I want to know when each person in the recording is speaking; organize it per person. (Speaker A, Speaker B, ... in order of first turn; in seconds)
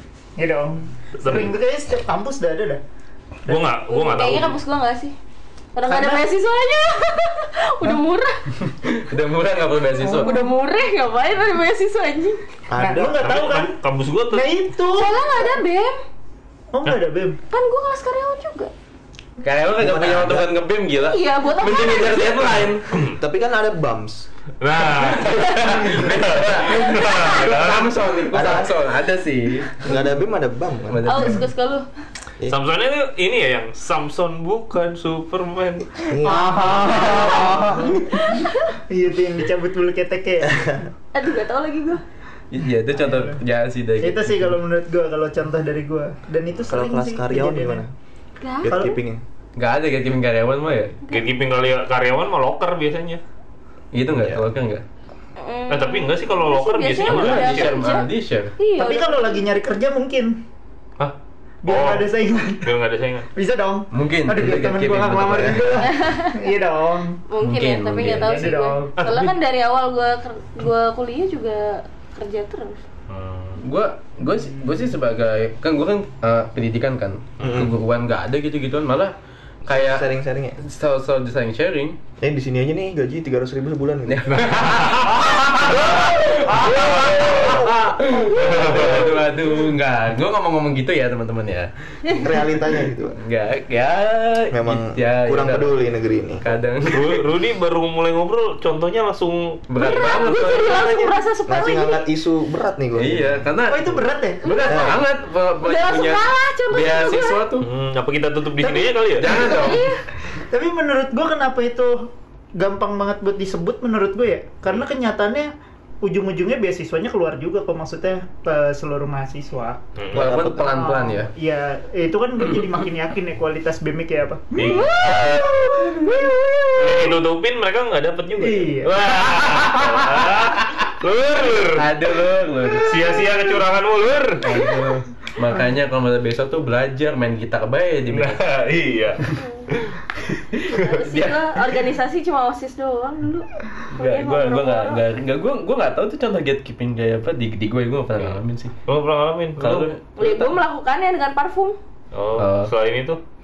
Speaker A: 0.4-2.8, 3.5-4.4, 5.9-6.2, 12.8-13.8, 14.3-15.5, 16.7-17.4, 36.2-37.9, 38.9-40.9, 42.9-43.4, 44.0-47.8, 48.7-49.0, 58.8-60.4, 61.6-62.7, 63.4-67.2, 68.0-69.0, 103.7-104.4, 108.8-109.8, 110.5-115.5, 116.0-119.8, 120.6-126.4, 128.4-129.1
Speaker B: 1.2-1.5, 3.5-4.6, 13.2-14.5, 22.9-23.2, 24.6-28.1, 32.5-37.9, 51.1-53.2, 55.7-57.9, 61.0-63.3, 69.0-69.3, 73.1-73.6, 77.4-77.7, 84.3-87.8, 88.3-89.2, 96.9-99.6, 107.6-109.4, 120.0-120.3, 124.6-125.4, 126.8-131.9, 132.8-134.4, 138.1-140.0, 148.2-149.9, 152.1-153.2
Speaker C: 3.9-5.2, 5.8-8.4, 10.0-12.4, 14.9-16.0, 17.5-18.7, 21.0-22.7, 26.9-27.2, 31.0-31.9, 36.2-38.8, 41.1-42.0, 48.4-48.7, 55.4-59.4, 65.8-66.4, 67.3-72.8, 99.8-102.1, 104.4-105.0, 105.6-107.5, 109.3-110.0, 124.6-127.1, 139.3-139.7, 140.7-145.0, 150.2-151.8
Speaker D: 8.6-10.5, 19.4-22.9, 24.9-29.8, 30.9-31.4, 42.5-44.6, 49.6-51.0, 53.9-54.8, 57.0-58.6, 63.9-65.9, 67.4-68.6, 73.6-79.1, 79.7-80.1, 80.6-82.0, 84.1-91.7, 93.2-95.8, 96.4-97.2, 99.7-101.2, 103.0-107.7, 109.1-109.9, 120.1-121.3, 129.5-130.8, 131.7-133.1, 134.4-138.4, 140.2-141.4, 143.9-148.7, 149.6-150.6, 152.4-152.7
Speaker E: 12.7-13.4, 19.8-20.5, 23.2-24.3, 28.3-28.8, 29.8-31.1, 36.1-37.0, 40.5-40.8, 46.6-47.9, 48.6-49.2, 77.4-77.8, 79.7-80.6, 82.2-84.5, 87.0-88.9, 92.1-93.2, 94.5-96.5, 101.5-103.5, 104.7-105.0, 120.1-120.8